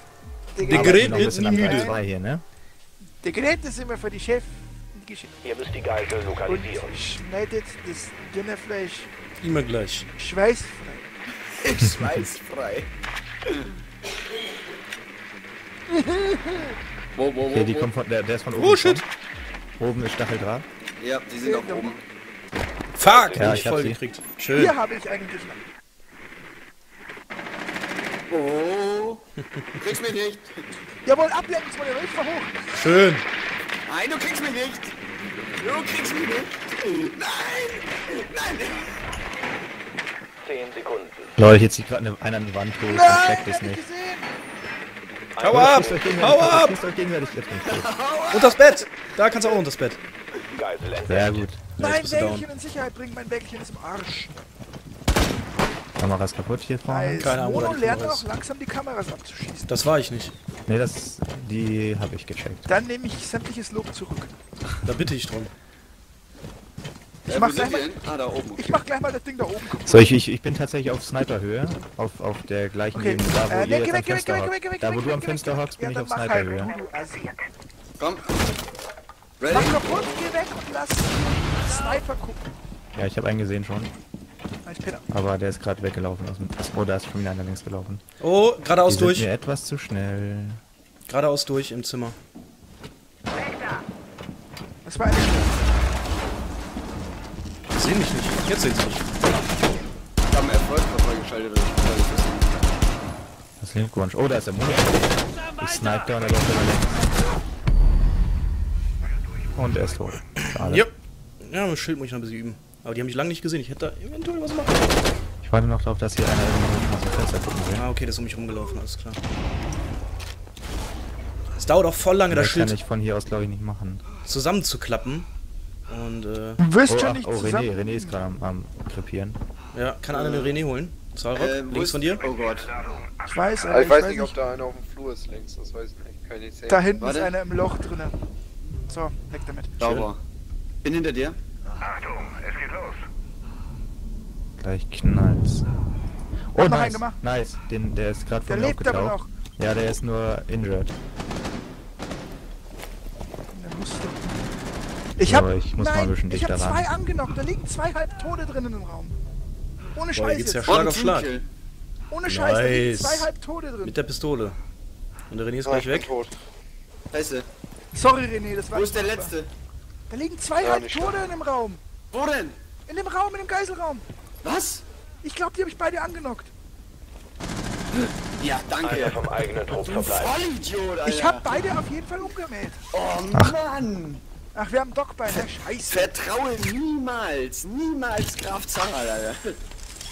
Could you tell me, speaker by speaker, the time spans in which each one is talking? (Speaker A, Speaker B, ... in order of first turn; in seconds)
Speaker A: 0.5-2.0, 3.2-5.3, 6.5-9.1, 10.2-11.1, 15.9-16.8, 21.4-22.0, 24.5-25.6, 31.0-32.9, 42.8-44.3, 51.8-54.4, 56.9-59.8, 62.7-64.3, 67.3-67.9, 68.5-70.2, 72.9-77.4, 79.5-82.5, 84.7-85.0, 94.8-95.7, 126.6-128.2, 133.2-134.3, 136.7-138.2, 138.9-139.7, 146.6-147.2, 148.4-149.3, 153.5-154.4, 155.2-159.2, 159.9-160.8, 162.1-163.9, 167.9-169.3, 170.1-171.8, 172.9-174.1, 175.2-176.5, 181.0-182.8, 184.5-186.1
Speaker B: 0.6-2.4, 17.5-19.0, 19.8-20.7, 23.4-24.0, 41.4-43.8, 45.5-47.9, 51.0-51.7, 56.0-57.3, 60.7-62.7, 69.8-76.7, 83.0-83.9, 85.1-88.0, 88.9-90.6, 103.6-107.1, 109.5-110.9, 115.4-117.9, 122.3-124.0, 126.9-129.4, 144.6-145.7, 146.5-150.9, 155.2-156.9
Speaker C: 0.6-1.9, 9.4-10.1, 18.5-19.0, 22.9-24.8, 32.7-33.2, 45.4-46.8, 48.3-50.0, 51.8-52.5, 57.2-58.3, 59.7-60.3, 64.8-65.5, 88.2-89.3, 91.1-92.2, 97.7-99.1, 110.6-115.0, 117.8-119.2, 121.6-122.8, 124.2-125.3, 125.9-126.6, 129.7-132.2, 139.8-140.1, 160.2-161.3, 162.3-163.3, 163.8-164.6, 165.3-166.1
Speaker D: 5.4-7.0, 23.0-23.7, 40.4-41.3, 45.4-46.1, 50.5-51.5, 178.8-180.3
Speaker E: 11.6-12.9, 17.1-17.9, 21.0-22.0, 28.3-29.2, 29.7-30.6, 33.9-34.9, 35.6-38.9, 47.7-48.8, 67.3-68.8, 78.0-78.2, 79.4-80.0, 100.3-102.7, 130.1-130.6, 131.3-132.8, 137.0-137.3, 139.8-140.2, 140.8-141.4, 160.7-161.5, 167.1-167.5, 168.7-169.5, 172.1-172.6, 174.4-174.8, 178.2-181.6, 182.9-184.2, 185.3-189.6
Speaker F: 133.7-137.1, 165.7-166.4, 170.6-171.2